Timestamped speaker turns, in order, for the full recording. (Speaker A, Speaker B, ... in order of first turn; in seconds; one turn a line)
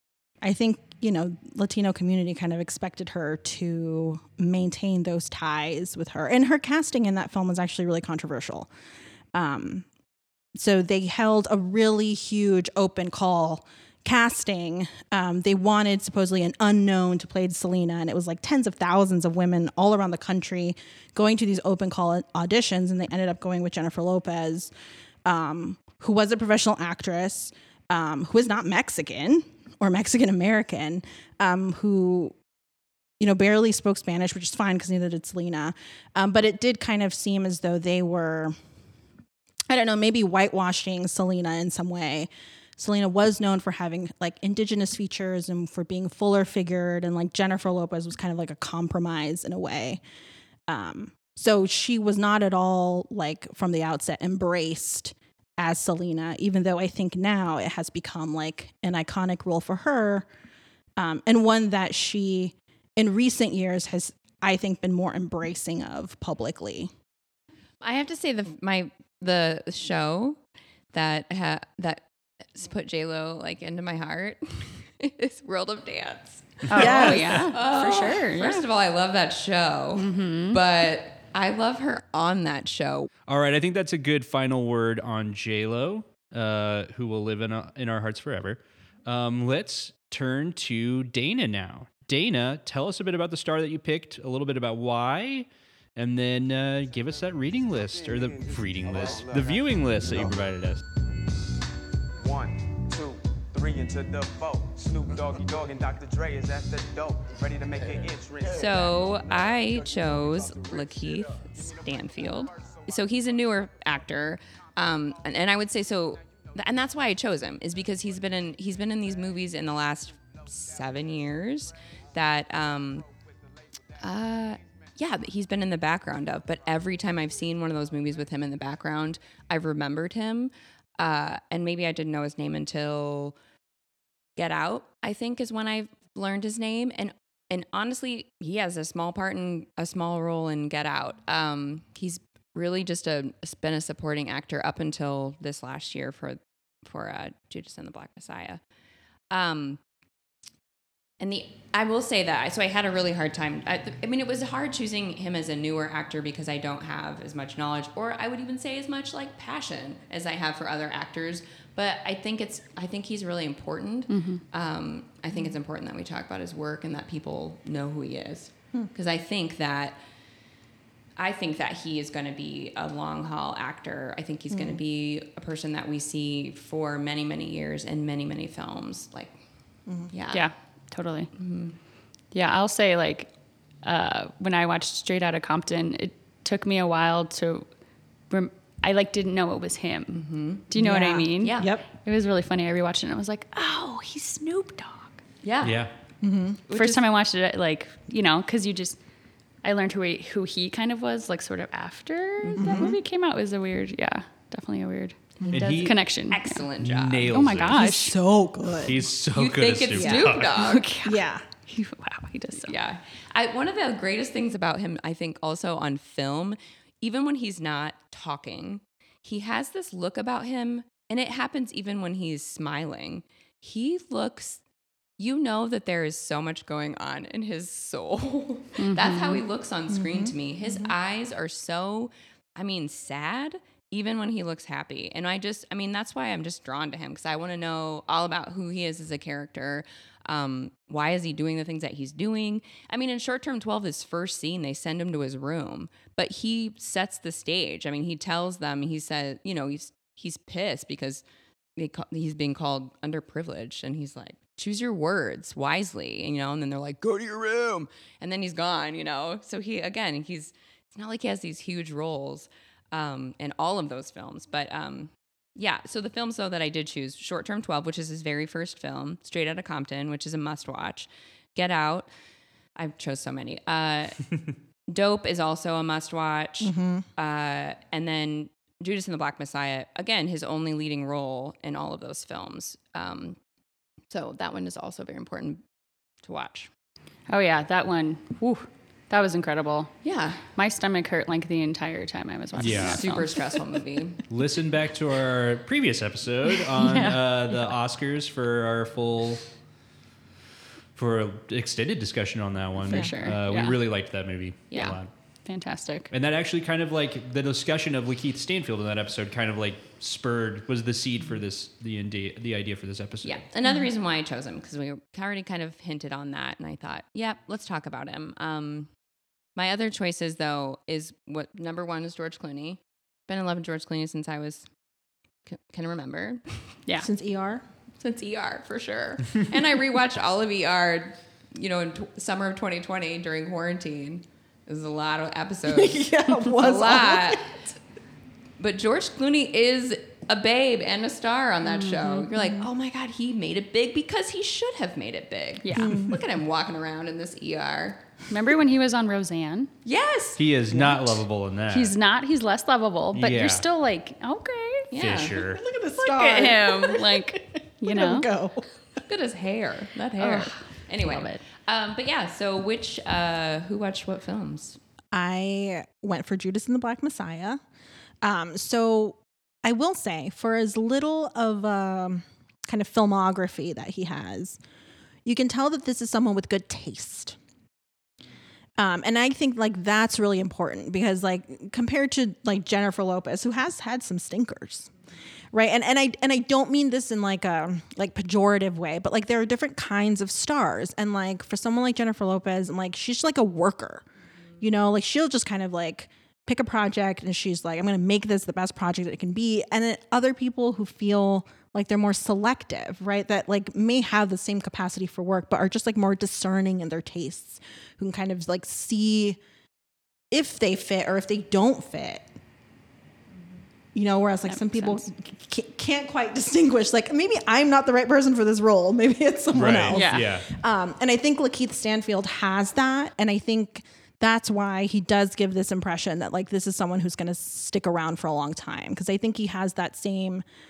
Speaker A: 0.4-8.7
Speaker A: 9.3-9.8
Speaker A: 10.5-24.7
Speaker A: 25.2-32.3
Speaker A: 33.2-38.5
Speaker A: 39.7-50.0
Speaker A: 50.7-60.3
Speaker A: 61.0-66.9
Speaker B: 67.8-70.4
Speaker B: 70.9-83.1
Speaker C: 76.7-78.6
Speaker A: 76.7-78.1
Speaker C: 80.0-80.6
Speaker D: 83.3-100.8
Speaker E: 96.9-100.3
Speaker E: 102.2-114.1
Speaker B: 108.5-123.0
Speaker E: 115.0-115.4
Speaker E: 116.2-116.8
Speaker E: 117.8-119.5
Speaker E: 120.2-121.3
Speaker E: 124.0-124.3
Speaker B: 124.0-133.4
Speaker E: 127.7-128.2
Speaker B: 134.4-148.6
Speaker B: 149.3-149.8
Speaker B: 151.2-170.0
Speaker C: 164.1-164.4
Speaker B: 171.2-179.3
Speaker A: 174.5-174.8
Speaker B: 180.1-180.5
Speaker C: 180.3-181.3
Speaker B: 181.3-181.7
Speaker C: 182.3-183.3
Speaker C: 183.8-187.7
Speaker C: 188.3-195.2
Speaker B: 190.1-190.7
Speaker A: 190.7-191.8
Speaker B: 191.4-191.8
Speaker B: 195.4-195.8
Speaker D: 195.6-195.9
Speaker A: 196.2-196.6
Speaker B: 196.7-197.0
Speaker C: 196.7-199.0
Speaker C: 199.6-206.7
Speaker B: 202.4-202.8
Speaker A: 202.6-203.0
Speaker D: 205.5-206.0
Speaker B: 206.3-207.4
Speaker D: 206.8-207.9
Speaker C: 207.3-208.1
Speaker A: 207.7-209.1
Speaker D: 208.8-210.5
Speaker B: 209.3-210.9
Speaker A: 209.9-210.4
Speaker C: 210.5-212.7
Speaker A: 211.0-211.4
Speaker B: 212.6-224.6
Speaker B: 225.2-251.2
Speaker C: 228.8-229.4
Speaker A: 229.9-230.9
Speaker B: 251.8-272.1
Speaker B: 272.8-274.2
Speaker B: 274.9-283.4
Speaker A: 276.6-277.1
Speaker B: 284.1-285.6
Speaker B: 286.2-286.7
Speaker C: 287.3-289.9
Speaker B: 290.0-290.4
Speaker C: 290.5-293.6
Speaker D: 292.6-293.1
Speaker B: 292.6-294.2
Speaker D: 294.3-299.4
Speaker C: 296.7-297.6
Speaker D: 300.9-305.1
Speaker C: 302.8-303.8
Speaker C: 304.7-306.1
Speaker D: 306.1-313.4
Speaker B: 313.2-318.9
Speaker B: 319.6-324.6
Speaker B: 325.5-326.4
Speaker A: 326.9-327.6
Speaker B: 328.0-336.0
Speaker A: 335.7-337.6
Speaker B: 336.6-337.5
Speaker B: 338.6-348.0
Speaker C: 341.6-342.3
Speaker C: 345.6-346.1
Speaker A: 345.7-346.1
Speaker C: 348.3-349.7
Speaker B: 349.8-350.8
Speaker D: 350.4-351.9
Speaker C: 351.7-354.9
Speaker D: 353.1-353.6
Speaker B: 354.9-355.4
Speaker D: 354.9-355.6
Speaker A: 355.4-358.6
Speaker C: 356.0-358.3
Speaker B: 359.1-364.8
Speaker C: 360.2-361.4
Speaker A: 365.1-367.6
Speaker A: 368.2-374.6
Speaker A: 375.2-377.4
Speaker A: 378.8-384.9
Speaker A: 385.5-394.1
Speaker A: 394.6-409.4
Speaker A: 410.3-412.3
Speaker A: 413.9-430.4
Speaker C: 414.5-415.0
Speaker D: 419.5-420.5
Speaker C: 419.9-420.2